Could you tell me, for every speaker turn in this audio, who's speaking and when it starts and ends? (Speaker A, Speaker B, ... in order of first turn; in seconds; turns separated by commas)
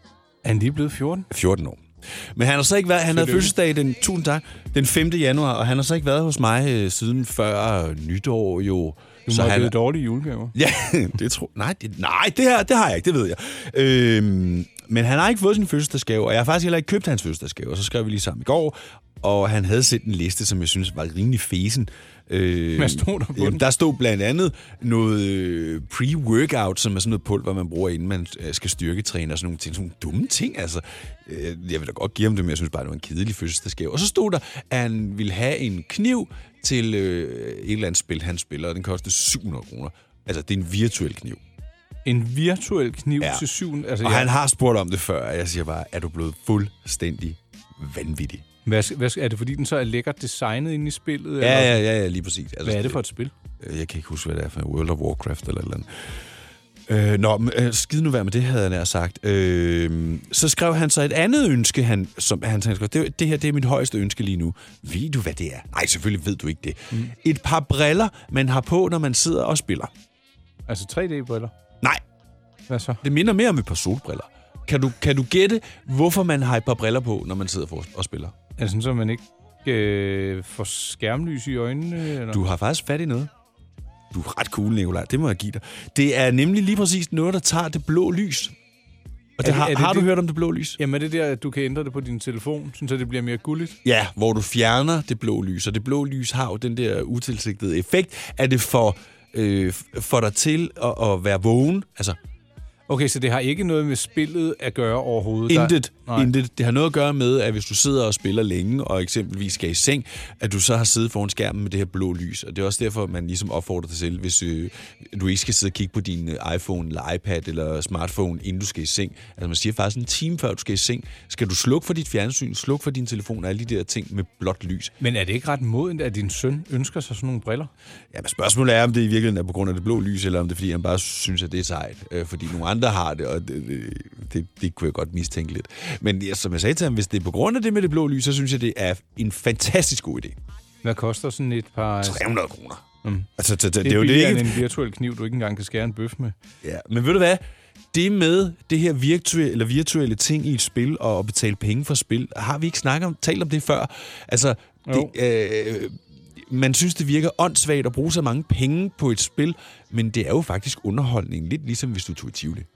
Speaker A: 0.4-1.3, Speaker B: 1.3-1.8, Speaker B: 2.4-9.8, Speaker A: 3.1-3.5, Speaker A: 9.3-10.5, Speaker B: 10.5-41.4, Speaker A: 22.8-23.6, Speaker A: 42.0-44.3, Speaker B: 44.0-48.5, Speaker A: 48.7-51.8, Speaker B: 51.4-53.0, Speaker A: 52.6-53.3, Speaker B: 53.6-55.9, Speaker B: 56.9-69.9, Speaker A: 70.7-71.5, Speaker A: 72.7-73.0, Speaker B: 73.0-78.3, Speaker A: 78.6-82.4, Speaker B: 82.3-83.3, Speaker B: 84.1-88.5, Speaker B: 89.4-90.8, Speaker A: 89.4-90.1, Speaker A: 90.8-93.8, Speaker B: 93.8-102.2, Speaker A: 102.9-106.3, Speaker B: 105.5-124.9, Speaker A: 125.0-127.7, Speaker B: 128.1-140.4, Speaker A: 140.8-142.2, Speaker B: 142.0-142.8, Speaker B: 143.4-144.7, Speaker A: 143.8-146.4, Speaker B: 146.6-162.7, Speaker A: 154.9-155.1